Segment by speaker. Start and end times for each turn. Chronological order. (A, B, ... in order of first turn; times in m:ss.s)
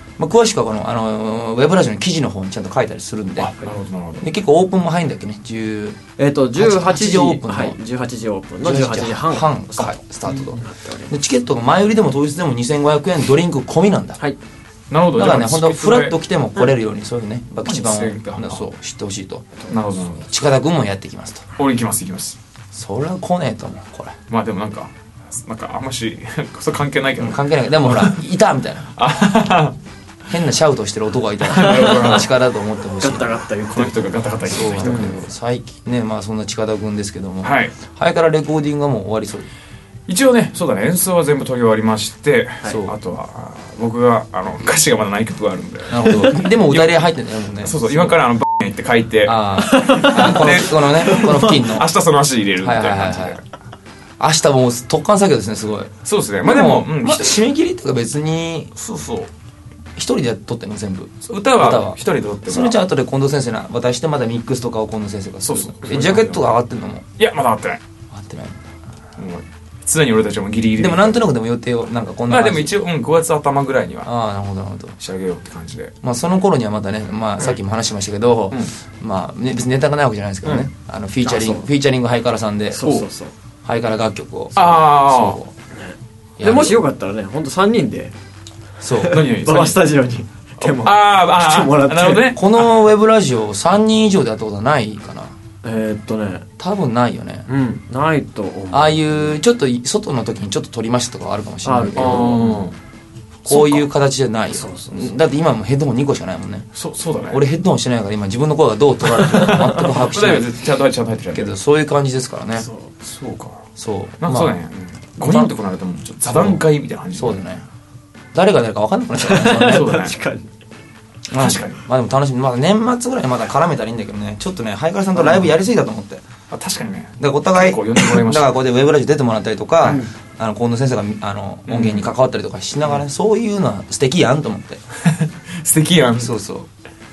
0:00.2-0:03.6 A
0:03.4-0:04.2 B
0:04.2-0:06.0 A
0:06.2-0:11.1 C
0:06.5-0:07.8 A
0:08.6-0:14.2 A
0:14.9-0:16.2 B
0:15.1-0:19.5 A
0:17.6-0:18.7 B
0:19.7-0:20.2 B
0:20.2-0:21.4 A
0:21.6-0:22.4 B
0:22.7-0:24.2 A
0:24.3-0:28.2 B
0:27.2-0:28.9 A
0:29.0-0:29.8 B
0:30.3-0:33.4 A
0:31.5-0:32.3 B
0:31.5-0:32.2 C
0:33.0-0:34.1 C
0:33.7-0:35.3 B
0:34.4-0:39.5 A
0:34.8-0:35.2 C
0:37.4-0:37.8 B
0:40.1-0:47.0 B
0:42.6-0:42.9 A
0:45.9-0:48.2 A
0:47.6-0:53.4 B
0:49.2-0:51.9 A
0:49.6-0:51.6 C
0:52.6-0:53.4 A
0:54.2-0:58.7 A
0:56.0-0:57.4 B
0:58.7-0:59.3 B
1:00.0-1:07.0 A
1:01.2-1:02.8 B
1:05.4-1:06.5 B
1:07.2-1:07.8 B
1:08.1-1:08.6 A
1:09.2-1:11.2 B
1:10.8-1:12.7 A
1:12.3-1:14.1 B
1:14.0-1:15.0 A
1:15.0-1:15.9 B
1:16.0-1:22.9 A
1:21.2-1:21.7 C
1:22.7-1:23.3 C
1:22.8-1:23.1 B
1:23.6-1:25.5 A
1:24.6-1:25.4 B
1:25.8-1:28.1 C
1:26.4-1:26.8 A
1:28.8-1:29.3 A
1:28.9-1:32.3 C
1:29.1-1:29.8 B
1:30.6-1:32.7 B
1:32.2-1:35.3 A
1:35.6-1:36.4 C
1:36.6-1:37.5 A
1:37.5-1:39.3 C
1:38.7-1:42.5 A
1:41.6-1:42.5 C
1:41.9-1:42.8 B
1:43.4-1:46.7 A
1:43.5-1:43.8 B
1:44.5-1:45.1 C
1:46.7-1:47.4 B
1:47.3-1:50.5 A
1:49.7-1:51.5 B
1:51.3-1:52.7 A
1:52.6-1:52.9 C
1:53.0-1:53.6 B
1:53.8-1:54.6 A
1:54.2-1:57.4 B
1:55.2-1:55.5 A
1:56.3-1:56.6 A
1:57.1-1:57.6 A
1:58.3-2:00.0 A
1:59.2-2:00.5 C
1:59.6-2:00.2 B
2:01.3-2:06.2 A
2:01.3-2:01.8 B
2:06.5-2:08.6 B
2:07.2-2:14.8 A
2:09.8-2:10.1 C
2:11.7-2:12.1 B
2:15.0-2:16.3 B
2:16.2-2:16.7 A